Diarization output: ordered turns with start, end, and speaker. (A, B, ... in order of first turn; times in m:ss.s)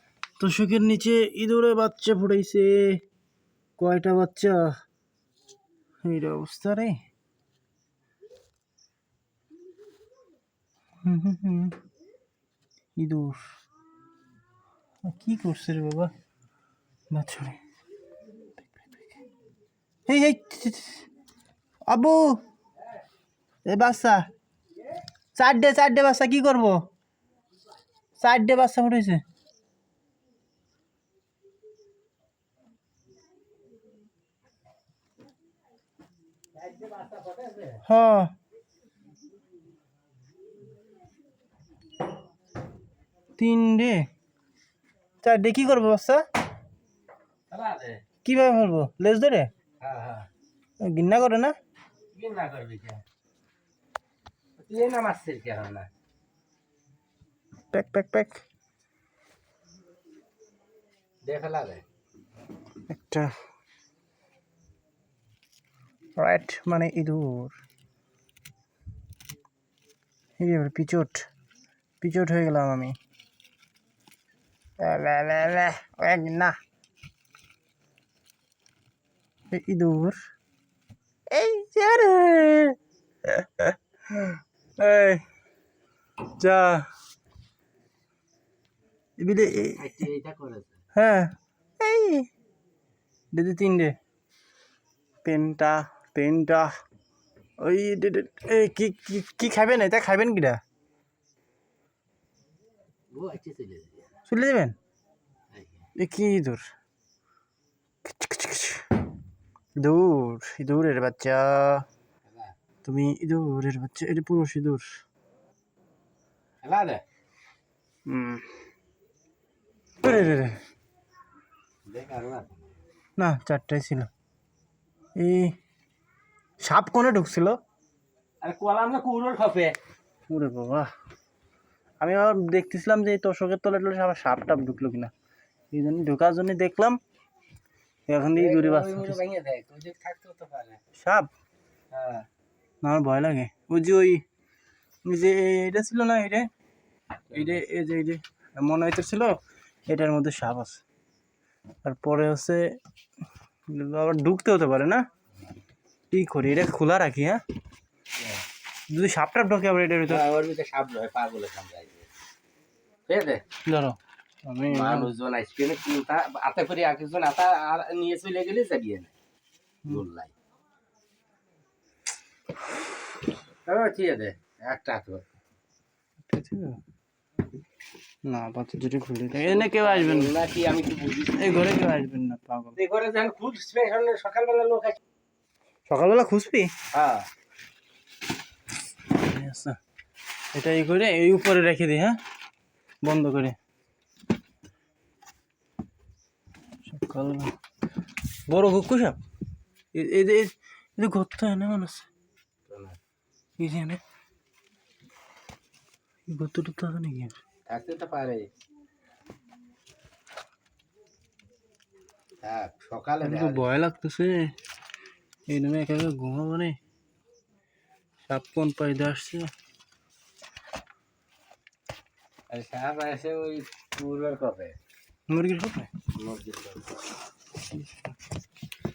0:00.4-0:03.0 A
0:03.8-0:04.7 A
0:06.0-0:07.0 A
0:11.0-0:11.8 A
0:13.0-0:13.5 A
0:15.0-0:16.1 A
0:17.1-0:17.6 A
0:18.6-0:19.0 A
0:20.1-0:21.1 A
0:21.9-0:22.4 A
0:23.6-0:24.2 A
0:25.3-0:26.8 A
0:28.2-0:29.2 A
0:36.6-0:37.8 B
0:37.8-0:38.3 A
0:43.4-0:44.1 A
0:45.2-0:46.3 A
0:47.5-0:48.0 B
0:48.2-0:49.5 A
0:49.8-0:50.3 B
0:50.8-0:51.6 A
0:52.1-0:53.0 B
0:54.6-0:55.9 B
0:57.7-0:58.4 A
1:01.2-1:01.8 B
1:02.9-1:03.3 A
1:06.2-1:07.6 A
1:10.4-1:11.2 A
1:12.0-1:13.0 A
1:14.8-1:16.6 A
1:19.5-1:20.2 A
1:21.3-1:25.2 A
1:26.4-1:26.9 A
1:29.2-1:30.0 A
1:29.7-1:30.8 B
1:30.9-1:32.3 A
1:33.3-1:34.0 A
1:35.2-1:36.8 A
1:37.6-1:40.6 A
1:43.1-1:44.1 B
1:44.3-1:44.8 A
1:45.5-1:45.9 B
1:46.0-1:46.7 A
1:48.0-1:48.9 A
1:49.8-1:51.8 A
1:52.2-1:52.5 B
1:52.8-1:55.0 A
1:56.6-1:57.0 B
1:58.1-1:58.5 A
2:00.0-2:00.6 A
2:01.9-2:02.7 B
2:03.2-2:04.1 A
2:05.2-2:05.5 A
2:06.6-2:07.6 A
2:08.4-2:09.8 B
2:10.3-2:10.9 A
2:12.0-2:15.1 A
2:15.7-2:17.0 A
2:18.1-2:19.2 A
2:18.3-2:20.8 B
2:21.0-2:21.3 A
2:21.9-2:22.3 B
2:22.8-2:24.2 A
2:25.0-2:26.5 A
2:27.3-2:27.6 B
2:27.3-2:30.8 A
2:31.8-2:32.7 A
2:33.7-2:35.0 A
2:36.1-2:37.4 A
2:38.2-2:38.4 B
2:38.9-2:40.2 A
2:40.1-2:42.1 B
2:43.1-2:43.4 B
2:43.6-2:45.1 A
2:44.7-2:49.1 B
2:49.8-2:50.3 B
2:53.6-2:55.2 B
2:56.3-2:56.8 A
2:58.2-3:00.3 A
2:59.4-3:01.6 B
3:01.3-3:02.8 A
3:02.8-3:05.0 B
3:05.9-3:06.7 A
3:06.9-3:07.3 B
3:09.1-3:09.8 A
3:10.5-3:12.2 A
3:13.0-3:13.6 A
3:16.8-3:17.5 A
3:18.4-3:19.2 A
3:19.9-3:22.1 A
3:22.7-3:23.0 B
3:23.6-3:24.0 A
3:26.3-3:27.4 A
3:27.7-3:28.5 B
3:32.4-3:33.7 B
3:33.2-3:34.5 A
3:35.5-3:36.8 A
3:38.3-3:39.5 A
3:42.5-3:44.8 B
3:45.3-3:45.9 A
3:46.1-3:46.8 B
3:47.7-3:48.1 A